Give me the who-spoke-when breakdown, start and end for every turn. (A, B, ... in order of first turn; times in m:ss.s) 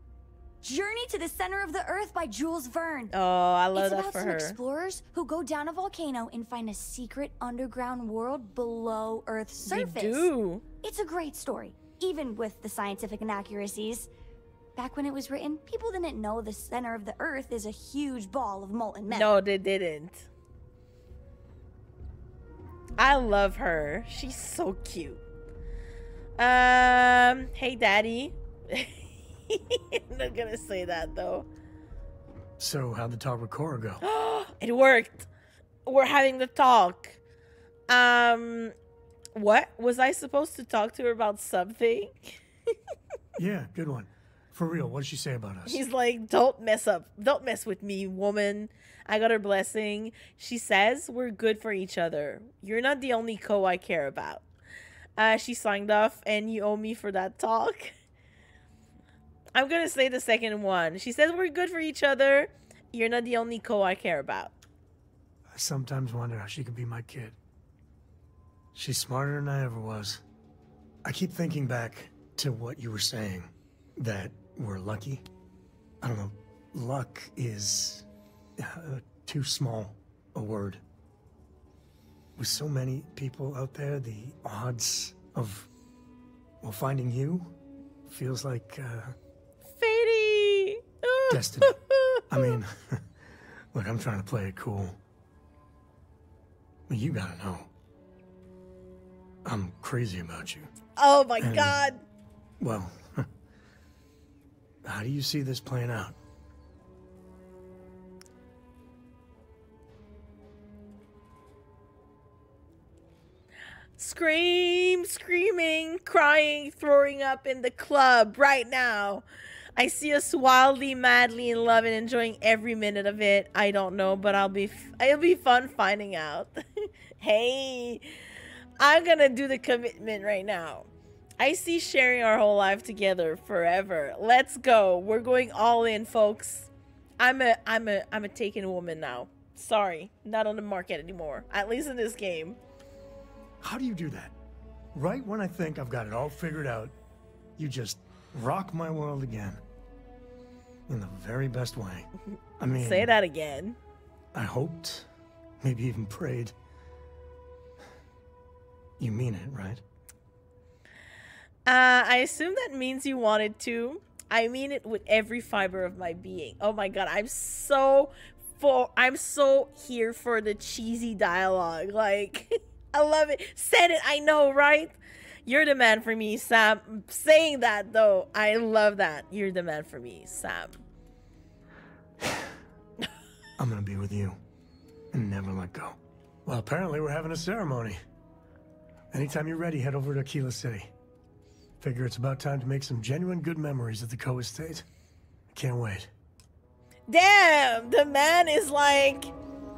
0:00.6-0:03.1 A
0:03.1-0:04.6 B
0:03.7-0:10.3 A
0:09.6-0:10.6 B
0:10.8-0:14.1 A
0:14.8-0:19.3 A
0:19.1-0:20.3 B
0:23.0-0:25.2 B
0:26.4-0:31.5 B
0:32.6-0:34.0 C
0:34.0-0:35.3 B
0:35.9-0:37.2 B
0:37.9-0:38.7 B
0:39.4-0:42.4 B
0:43.4-0:45.8 C
0:45.7-0:54.4 B
0:55.2-0:57.9 B
0:59.6-1:04.5 B
1:05.5-1:07.4 C
1:08.7-1:10.2 C
1:11.0-1:15.2 C
1:16.0-1:18.1 C
1:18.6-1:20.8 C
1:22.4-1:25.7 C
1:26.6-1:29.2 C
1:29.7-1:32.6 B
1:31.3-1:33.1 C
1:33.7-1:35.0 C
1:36.9-1:37.7 C
1:39.4-1:40.7 C
1:41.0-1:42.0 B
1:41.4-1:41.8 C
1:42.6-1:43.3 C
1:44.8-1:46.2 C
1:54.0-1:59.2 B
1:59.8-2:08.1 B
2:08.8-2:10.9 B
2:11.4-2:22.6 B
2:23.6-2:24.3 C
2:24.9-2:26.9 C
2:27.6-2:29.6 C
2:30.9-2:33.1 C
2:32.7-2:33.8 B
2:34.3-2:35.1 C
2:35.6-2:36.5 C
2:39.0-2:39.8 C
2:41.7-3:00.8 B
3:02.2-3:02.5 C
3:03.6-3:04.4 C
3:05.1-3:08.0 C
3:09.1-3:10.9 C
3:11.8-3:14.9 C
3:15.5-3:16.1 C
3:17.1-3:19.3 B